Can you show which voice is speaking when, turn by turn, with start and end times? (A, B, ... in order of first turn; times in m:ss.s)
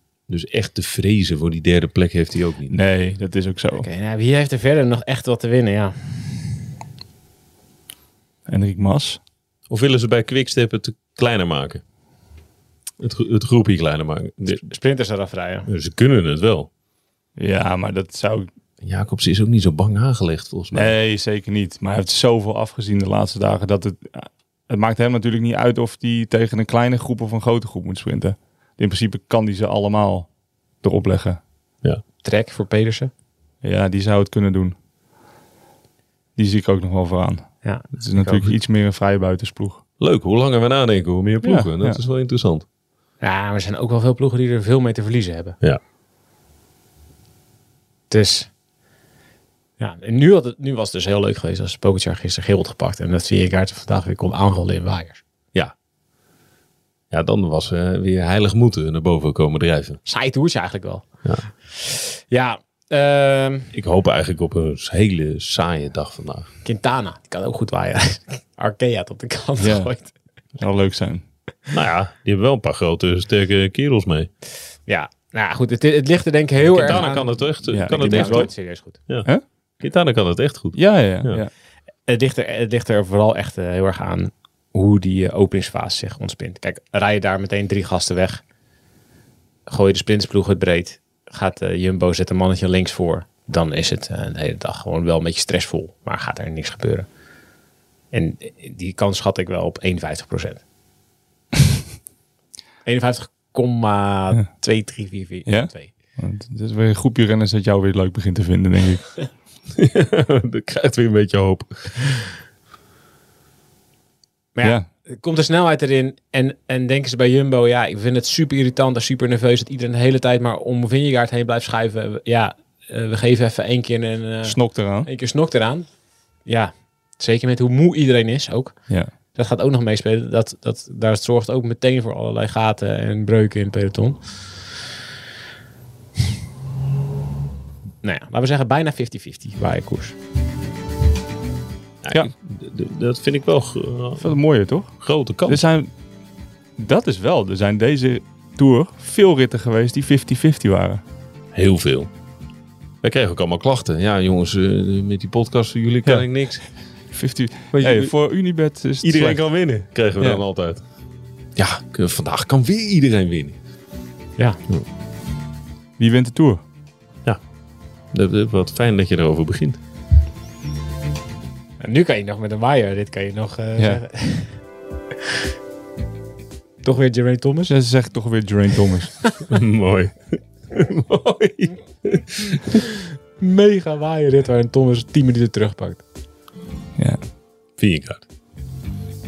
0:00.3-0:02.8 A
0:02.7-0:03.9 B
0:03.8-0:06.3 C
0:08.5-0:09.2 B
0:09.7-0:11.8 A
0:13.0-0:14.6 A
0:14.5-0:15.7 C
0:15.7-0:16.7 A
0:17.4-0:18.5 B
0:18.8-0:21.0 A
0:20.7-0:30.3 B
0:30.8-0:31.4 B
0:32.2-0:33.1 C
0:33.6-0:34.8 B
0:36.4-0:39.8 B
0:37.6-0:38.5 C
0:40.0-0:42.6 A
0:41.4-0:42.0 B
0:43.2-0:45.6 C
0:48.1-0:48.5 C
0:49.8-0:55.2 C
0:57.1-1:00.0 A
1:00.0-1:01.0 C
1:01.7-1:03.7 C
1:03.7-1:06.5 A
1:06.6-1:10.1 C
1:09.6-1:09.9 B
1:10.6-1:11.2 B
1:11.7-1:14.3 A
1:14.9-1:19.0 C
1:16.6-1:18.5 A
1:17.7-1:18.5 B
1:19.8-1:21.4 A
1:20.7-1:21.5 B
1:22.1-1:28.4 C
1:29.7-1:37.1 C
1:38.1-1:40.6 C
1:42.8-1:45.9 C
1:45.4-1:49.1 B
1:49.8-1:52.2 A
1:54.6-2:05.9 C
2:04.4-2:05.1 B
2:06.4-2:14.3 C
2:18.0-2:20.2 C
2:22.0-2:25.6 A
2:24.2-2:25.0 B
2:25.5-2:25.9 B
2:26.8-2:31.0 B
2:31.5-2:32.1 A
2:33.0-2:36.7 A
2:37.1-2:39.4 B
2:37.7-2:38.3 A
2:39.0-2:40.8 A
2:41.6-2:43.6 A
2:44.4-2:44.6 C
2:46.0-2:46.6 B
2:48.1-2:49.8 A
2:51.8-2:54.6 C
2:53.8-2:54.0 B
2:56.8-2:57.8 C
2:57.7-2:59.1 B
2:59.5-3:02.6 A
3:03.4-3:06.0 C
3:07.8-3:08.2 A